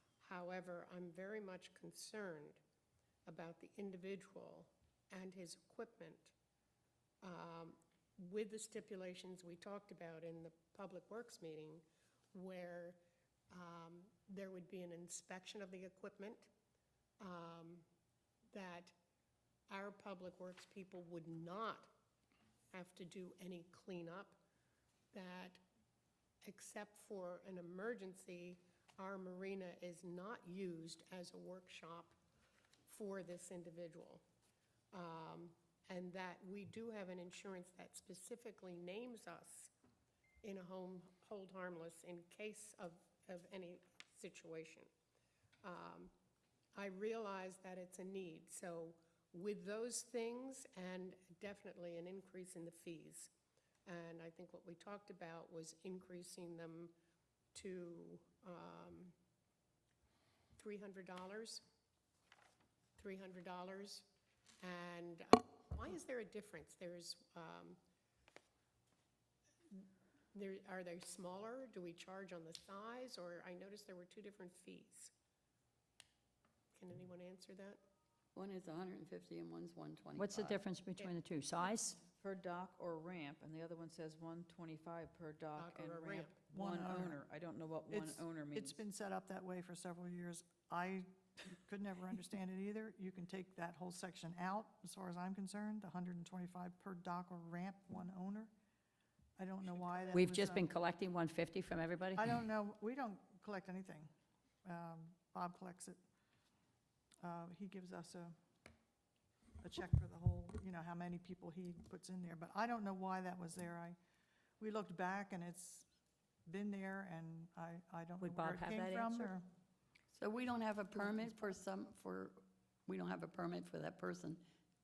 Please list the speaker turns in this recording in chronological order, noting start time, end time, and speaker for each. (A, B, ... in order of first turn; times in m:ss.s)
0:00.2-0:02.6 A
0:03.3-0:06.3 A
0:07.2-0:13.0 A
0:13.5-0:16.5 A
0:17.2-0:17.8 A
0:18.5-0:18.9 A
0:19.7-0:21.9 A
0:22.7-0:24.4 A
0:25.1-0:25.6 A
0:26.4-0:32.2 A
0:32.9-0:34.2 A
0:34.9-0:39.7 A
0:40.4-0:44.9 A
0:45.6-0:46.1 A
0:46.8-0:53.3 A
0:53.9-0:56.9 A
0:57.5-0:59.2 A
1:00.6-1:01.6 A
1:03.0-1:04.1 A
1:04.6-1:07.8 A
1:09.7-1:15.1 A
1:16.7-1:17.8 A
1:18.4-1:20.5 B
1:20.2-1:22.1 C
1:20.3-1:20.6 D
1:22.1-1:28.8 D
1:25.6-1:26.4 A
1:26.5-1:27.3 E
1:27.9-1:38.5 E
1:39.4-1:40.7 E
1:40.1-1:42.4 C
1:42.1-1:44.1 E
1:44.6-1:46.0 E
1:47.2-1:48.4 E
1:49.6-1:54.0 E
1:54.6-1:55.9 E
1:56.5-1:59.4 E
1:58.2-1:59.4 C
2:00.1-2:04.4 B